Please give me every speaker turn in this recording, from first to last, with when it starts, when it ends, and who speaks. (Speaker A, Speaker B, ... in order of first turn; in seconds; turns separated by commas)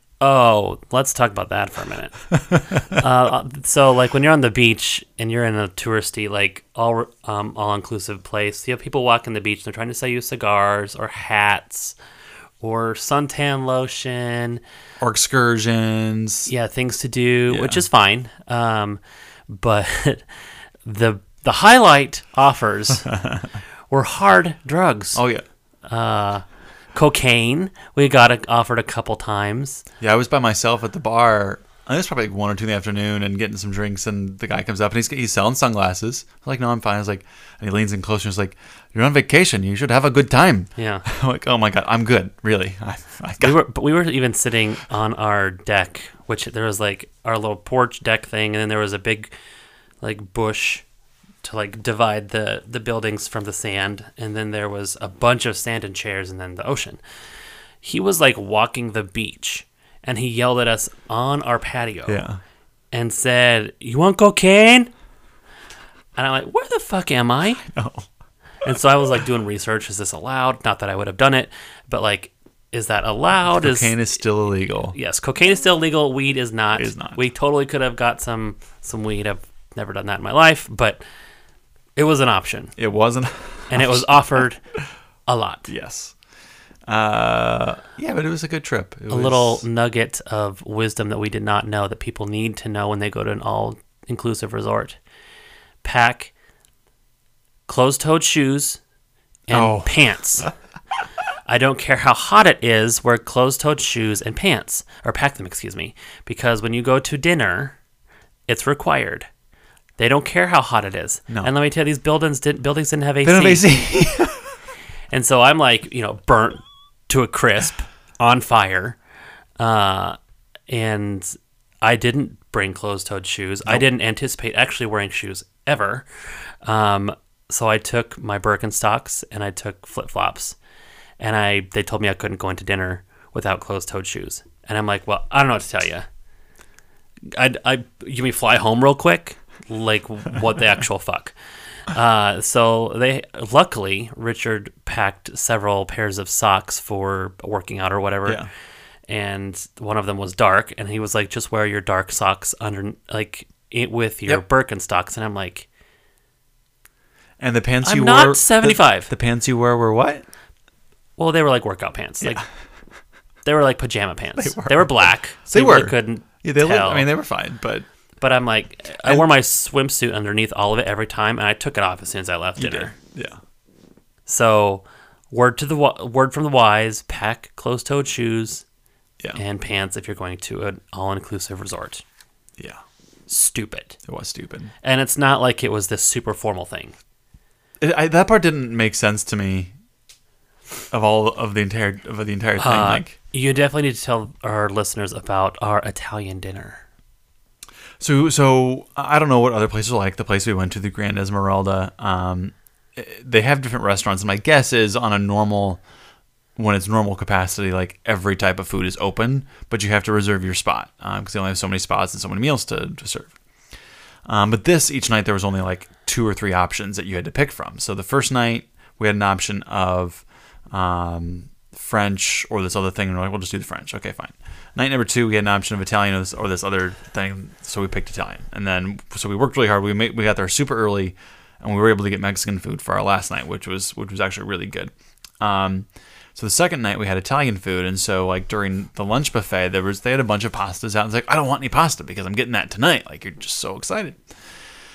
Speaker A: 0.2-2.1, Speaker B: 2.5-3.0, Speaker A: 2.9-11.9, Speaker A: 12.6-14.6, Speaker B: 15.0-16.5, Speaker A: 16.5-20.2, Speaker B: 17.5-17.8, Speaker A: 20.8-23.1, Speaker B: 23.1-23.5, Speaker A: 23.9-25.2, Speaker B: 25.1-25.4, Speaker A: 25.9-29.8, Speaker B: 30.0-43.6, Speaker A: 40.8-41.0, Speaker A: 43.4-49.3, Speaker A: 50.0-50.8, Speaker A: 51.4-57.0, Speaker A: 57.8-62.2, Speaker B: 62.1-62.4, Speaker A: 62.9-64.9, Speaker A: 66.2-67.6, Speaker B: 67.6-68.1, Speaker A: 68.6-73.9, Speaker B: 73.5-75.0, Speaker A: 74.9-81.0, Speaker B: 76.8-77.2, Speaker A: 82.0-82.7, Speaker B: 82.8-84.4, Speaker A: 83.7-84.6, Speaker A: 85.3-85.7, Speaker B: 85.7-86.1, Speaker B: 86.9-89.6, Speaker A: 89.1-95.0, Speaker A: 95.8-96.3, Speaker A: 97.7-98.8, Speaker A: 99.5-100.5, Speaker B: 99.5-100.0, Speaker A: 101.5-107.8, Speaker A: 108.5-109.3, Speaker A: 110.0-113.8, Speaker B: 113.2-114.4, Speaker A: 115.1-119.0, Speaker A: 119.6-120.2, Speaker A: 120.7-126.0, Speaker A: 126.6-130.6, Speaker A: 131.2-136.1, Speaker A: 137.3-141.3, Speaker A: 141.9-148.4, Speaker A: 149.1-155.7, Speaker B: 157.4-160.2, Speaker A: 157.8-159.1, Speaker A: 161.2-162.4, Speaker A: 163.4-167.1, Speaker B: 164.3-167.8, Speaker A: 168.2-172.9, Speaker B: 172.6-173.4, Speaker A: 174.3-178.6, Speaker A: 179.3-182.0, Speaker A: 183.3-184.0, Speaker B: 184.1-184.7, Speaker A: 184.8-186.9, Speaker B: 187.8-189.7, Speaker B: 190.9-193.1, Speaker A: 192.6-196.8, Speaker B: 198.0-205.8, Speaker B: 206.6-213.3, Speaker B: 214.2-244.2